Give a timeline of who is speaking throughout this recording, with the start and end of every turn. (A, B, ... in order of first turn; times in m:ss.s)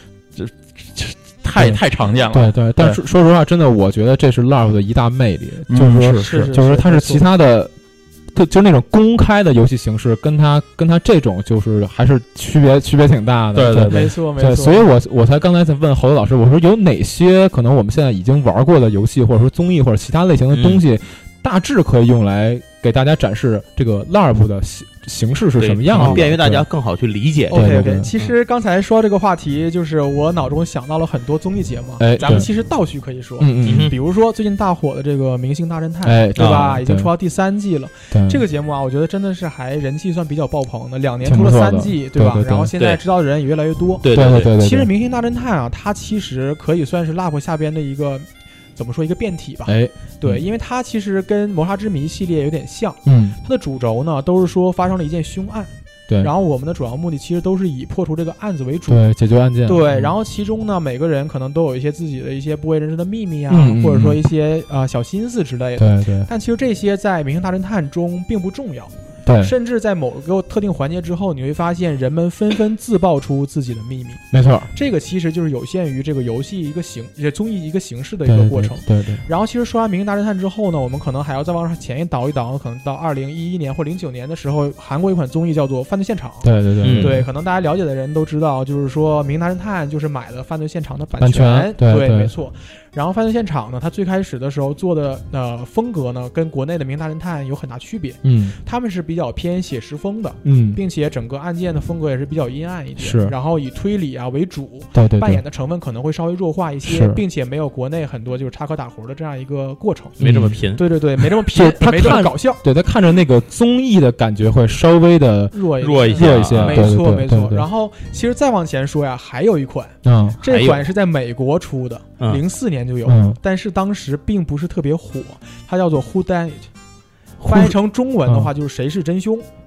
0:00.4-0:03.0 A
0:01.6-0:01.8 B
0:02.3-0:07.7 B
0:05.7-0:06.5 A
0:06.2-0:07.3 C
0:08.3-0:26.7 B
0:13.5-0:14.1 A
0:13.9-0:14.9 C
0:20.5-0:20.8 D
0:25.6-0:28.3 D
0:27.5-0:59.0 C
0:27.5-0:28.1 B
0:32.0-0:32.5 B
0:33.4-0:33.9 B
0:33.6-0:34.0 D
0:36.0-0:37.1 B
0:36.4-0:36.8 D
0:38.1-0:38.4 B
0:41.2-0:42.7 B
0:44.0-0:44.5 D
0:44.1-0:44.9 B
0:49.7-0:50.4 B
0:53.1-0:53.4 B
0:58.9-1:00.1 B
0:59.6-1:52.6 C
1:03.5-1:04.2 B
1:05.8-1:06.3 B
1:09.2-1:09.5 B
1:14.3-1:14.7 B
1:18.3-1:19.2 B
1:26.4-1:27.2 B
1:26.8-1:27.2 D
1:31.2-1:32.3 B
1:38.2-1:38.6 B
1:40.4-1:40.8 B
1:43.0-1:43.3 B
1:44.9-1:45.4 B
1:46.8-1:47.2 B
1:50.2-1:50.8 D
1:50.2-1:50.6 B
1:51.5-1:57.7 B
1:55.5-2:06.7 C
1:55.8-1:56.9 D
2:00.0-2:00.4 B
2:00.5-2:00.8 D
2:03.1-2:03.4 B
2:07.4-2:07.8 B
2:07.4-2:09.5 C